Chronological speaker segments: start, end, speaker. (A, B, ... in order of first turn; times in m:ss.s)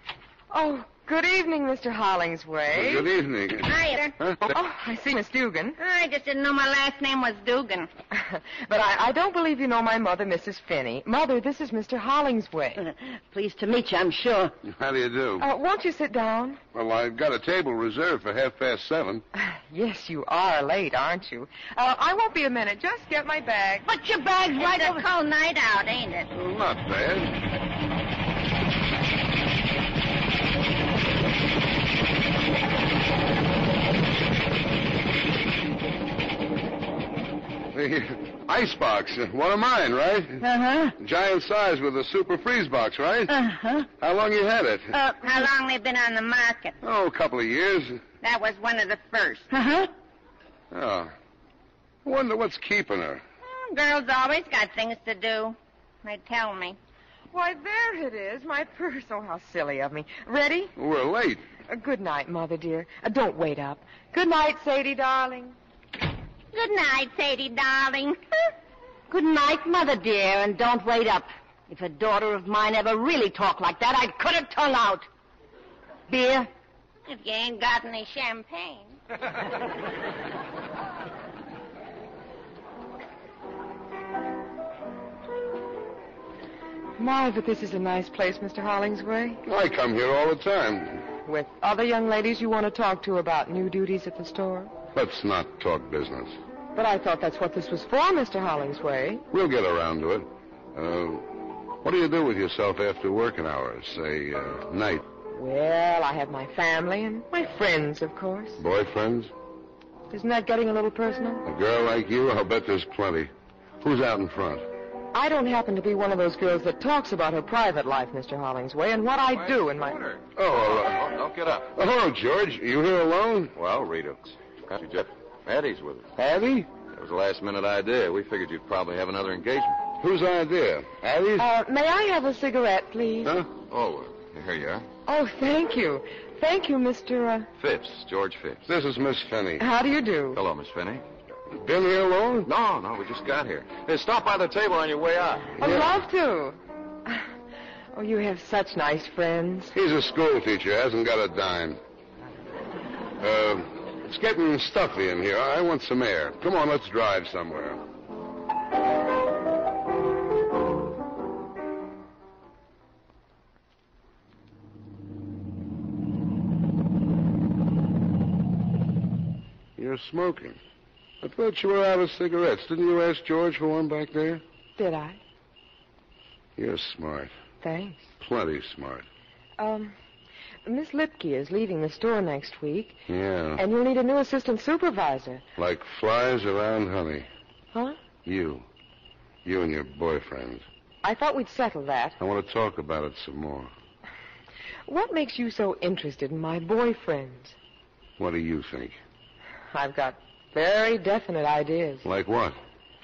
0:00.5-0:03.1 A
0:02.7-0:04.4 B
0:03.7-0:04.1 C
0:04.5-0:05.8 A
0:05.8-0:07.9 C
0:08.1-0:12.8 A
0:12.8-0:14.6 D
0:14.6-0:15.4 B
0:15.4-0:16.6 A
0:16.7-0:19.2 B
0:19.4-0:23.8 A
0:23.8-0:25.0 D
0:24.6-0:26.3 C
0:26.3-0:27.4 B
0:37.7-0:40.4 B
0:40.4-0:40.9 D
0:41.0-0:43.3 B
0:43.3-0:43.9 D
0:44.0-0:44.9 B
0:44.9-0:45.3 D
0:45.2-0:46.8 C
0:46.8-0:48.0 B
0:48.2-0:49.5 C
0:49.5-0:49.9 D
0:50.7-0:51.1 B
0:52.0-0:53.2 B
0:53.4-0:56.8 C
0:57.3-1:00.7 A
1:00.8-1:01.4 B
1:01.7-1:05.6 A
1:06.5-1:08.2 C
1:09.1-1:15.0 D
1:16.1-1:16.5 D
1:17.1-1:19.0 C
1:27.0-1:29.4 A
1:29.4-1:31.0 B
1:31.2-1:34.7 A
1:34.9-1:36.4 B
1:36.7-1:39.2 A
1:39.3-1:45.0 B
1:45.3-1:48.6 A
1:48.6-1:49.3 B
1:50.1-1:51.4 A
1:51.4-1:54.6 B
1:55.1-2:00.0 A
1:59.3-2:01.7 E
2:00.4-2:01.0 B
2:01.7-2:03.5 B
2:03.6-2:06.1 E
2:06.2-2:06.7 B
2:06.7-2:09.8 E
2:10.0-2:11.5 B
2:11.4-2:13.3 A
2:13.2-2:13.5 B
2:13.7-2:14.9 E
2:15.1-2:17.5 A
2:17.6-2:18.6 E
2:18.6-2:19.6 B
2:19.6-2:20.4 A
2:20.3-2:21.0 E
2:21.6-2:22.5 B
2:22.4-2:25.6 E
2:25.6-2:27.2 A
2:25.6-2:25.9 B
2:27.9-2:29.7 A
2:29.7-2:31.8 B
2:33.2-2:37.8 B
2:49.8-2:50.6 B
2:51.2-2:54.4 B
2:54.8-2:55.2 A
2:56.6-2:57.3 B
2:57.6-2:58.1 A
2:58.2-2:59.0 B
2:59.6-2:59.9 A
3:00.6-3:03.0 A
3:03.1-3:03.6 B
3:03.6-3:05.4 A
3:05.6-3:07.3 B
3:07.7-3:08.0 A
3:08.2-3:08.6 B
3:09.4-3:10.6 B
3:11.0-3:12.2 A
3:12.2-3:13.7 B
3:14.9-3:17.6 A
3:18.2-3:19.0 B
3:19.7-3:22.0 A
3:22.0-3:22.6 B